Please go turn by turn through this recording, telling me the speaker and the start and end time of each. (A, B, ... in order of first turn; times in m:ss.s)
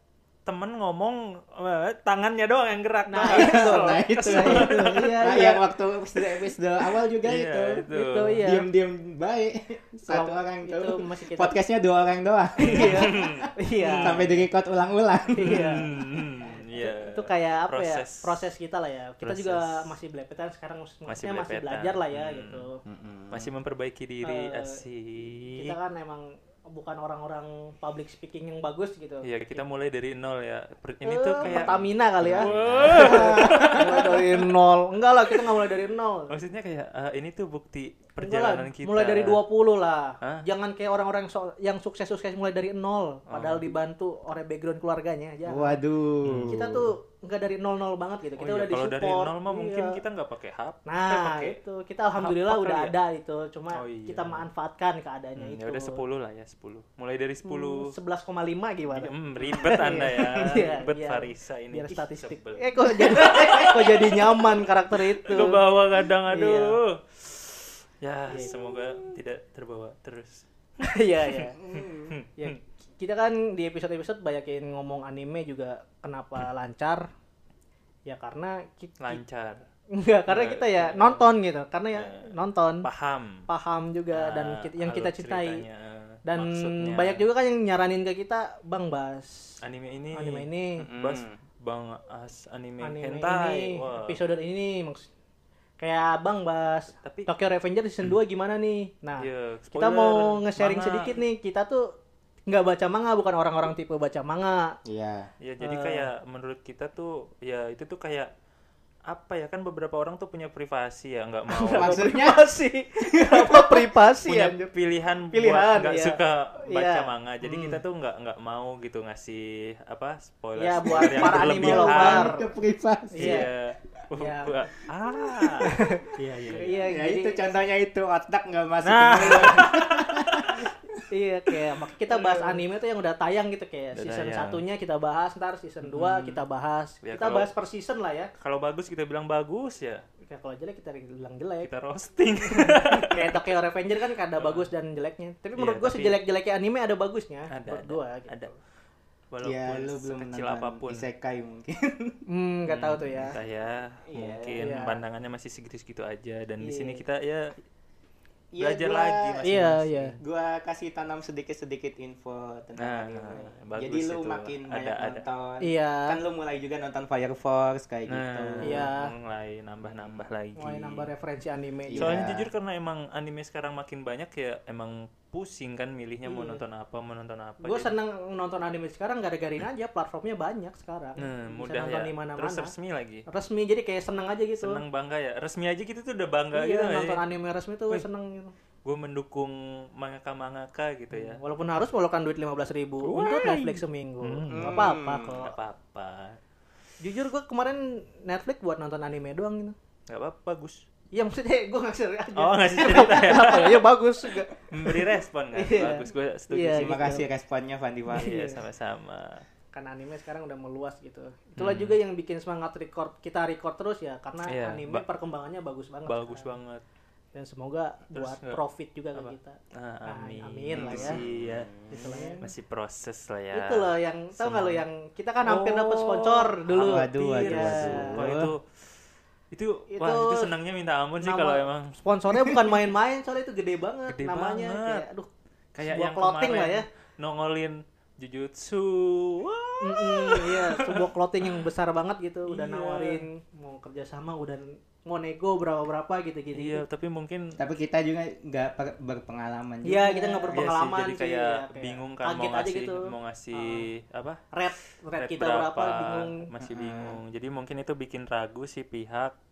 0:00.4-0:05.2 A
0:03.1-0:05.6 B
0:03.2-0:07.8 C
0:07.2-0:08.4 A
0:07.9-0:08.7 B
0:08.4-0:13.5 C
0:10.1-0:11.5 B
0:12.6-0:14.3 B
0:12.6-0:14.4 A
0:14.0-0:15.9 C
0:15.3-0:15.9 B
0:15.4-0:18.5 A
0:16.7-0:22.8 B
0:19.2-0:19.9 A
0:21.1-0:22.7 A
0:22.8-0:23.5 C
0:23.3-0:25.7 A
0:24.2-0:24.8 B
0:25.6-0:29.6 B
0:29.2-0:34.4 A
0:31.0-0:36.3 B
0:31.4-0:34.2 C
0:36.3-0:39.4 A
0:38.2-0:45.8 B
0:43.3-0:43.7 A
0:45.4-0:46.9 C
0:46.2-0:46.5 A
0:46.5-0:50.0 B
0:48.4-0:51.6 A
0:50.8-0:56.0 B
0:52.2-0:52.9 A
0:53.7-0:54.4 A
0:55.4-0:57.9 A
0:57.4-1:05.6 B
0:58.9-1:10.4 A
1:06.3-1:06.8 B
1:08.3-1:09.1 B
1:10.8-1:11.6 B
1:11.2-1:12.6 A
1:11.6-1:12.1 C
1:12.4-1:17.0 B
1:18.0-1:19.2 B
1:19.0-1:19.6 A
1:19.9-1:22.8 B
1:20.3-1:21.3 A
1:21.9-1:22.3 A
1:22.8-1:23.5 A
1:23.5-1:25.6 B
1:24.1-1:27.2 A
1:26.2-1:29.4 B
1:29.6-1:34.2 A
1:30.1-1:30.9 B
1:30.8-1:31.4 C
1:32.8-1:35.1 B
1:35.8-1:41.9 B
1:37.0-1:37.3 A
1:39.2-1:41.2 A
1:42.5-1:44.8 B
1:44.8-1:45.3 C
1:45.4-1:48.3 A
1:45.6-1:46.1 B
1:49.1-1:52.0 A
1:51.6-1:54.7 B
1:51.7-1:52.4 C
1:53.0-1:53.9 C
1:54.2-2:02.3 A
1:55.3-1:57.8 B
2:00.6-2:02.5 B
2:00.8-2:03.5 C
2:03.1-2:03.5 B
2:03.2-2:06.9 A
2:04.2-2:04.6 B
2:05.6-2:07.5 B
2:06.8-2:11.0 C
2:08.8-2:10.6 A
2:09.2-2:09.7 B
2:11.1-2:18.3 B
2:12.1-2:12.6 A
2:13.9-2:14.6 A
2:15.9-2:16.4 A
2:17.0-2:17.5 A
2:18.4-2:20.0 A
2:20.2-2:21.7 B
2:21.6-2:23.4 A
2:22.5-2:28.5 B
2:24.4-2:24.7 A
2:25.6-2:26.2 A
2:27.5-2:28.5 A
2:29.3-2:31.0 A
2:29.4-2:32.2 C
2:32.3-2:33.4 B
2:32.7-2:37.5 A
2:34.1-2:34.6 C
2:34.5-2:35.0 B
2:36.6-2:37.0 B
2:38.5-2:39.5 C
2:38.6-2:40.2 A
2:39.4-2:40.2 B
2:40.2-2:48.9 C
2:42.8-2:45.2 A
2:45.6-2:46.2 B
2:48.1-2:51.1 A
2:48.6-2:49.1 B
2:49.8-2:50.2 C
2:50.6-2:52.2 B
2:51.9-2:52.5 C
2:52.0-2:57.9 A
2:56.2-2:56.6 B
2:57.6-3:02.7 B
3:01.2-3:03.2 A
3:03.3-3:04.8 B
3:04.6-3:07.2 A
3:06.5-3:08.5 B
3:08.8-3:11.4 A
3:11.1-3:15.5 B
3:13.0-3:16.4 A
3:14.5-3:15.4 C
3:17.0-3:19.7 B
3:20.1-3:20.8 A
3:21.1-3:27.2 B
3:22.4-3:23.8 A
3:24.7-3:27.2 A
3:26.8-3:28.3 C
3:28.1-3:28.6 B
3:28.1-3:29.4 A
3:29.7-3:36.5 B
3:31.6-3:32.0 A
3:34.4-3:35.0 A
3:36.0-3:36.8 A
3:37.3-3:41.2 B
3:38.1-3:38.6 A
3:39.1-3:44.8 A
3:40.7-3:42.4 C
3:41.9-3:42.4 B
3:43.5-3:48.2 B
3:45.4-3:48.8 A
3:46.7-3:48.5 C
3:49.5-3:52.0 A
3:49.9-3:50.5 B
3:51.2-3:55.3 B
3:54.1-3:55.0 A
3:55.7-4:01.7 A
3:55.8-3:56.8 B
3:59.8-4:06.8 B
4:02.5-4:03.2 A
4:06.5-4:07.6 A
4:07.6-4:10.6 C
4:09.8-4:13.9 B
4:10.5-4:14.4 A
4:14.5-4:16.4 B
4:15.2-4:19.3 A
4:16.6-4:17.2 C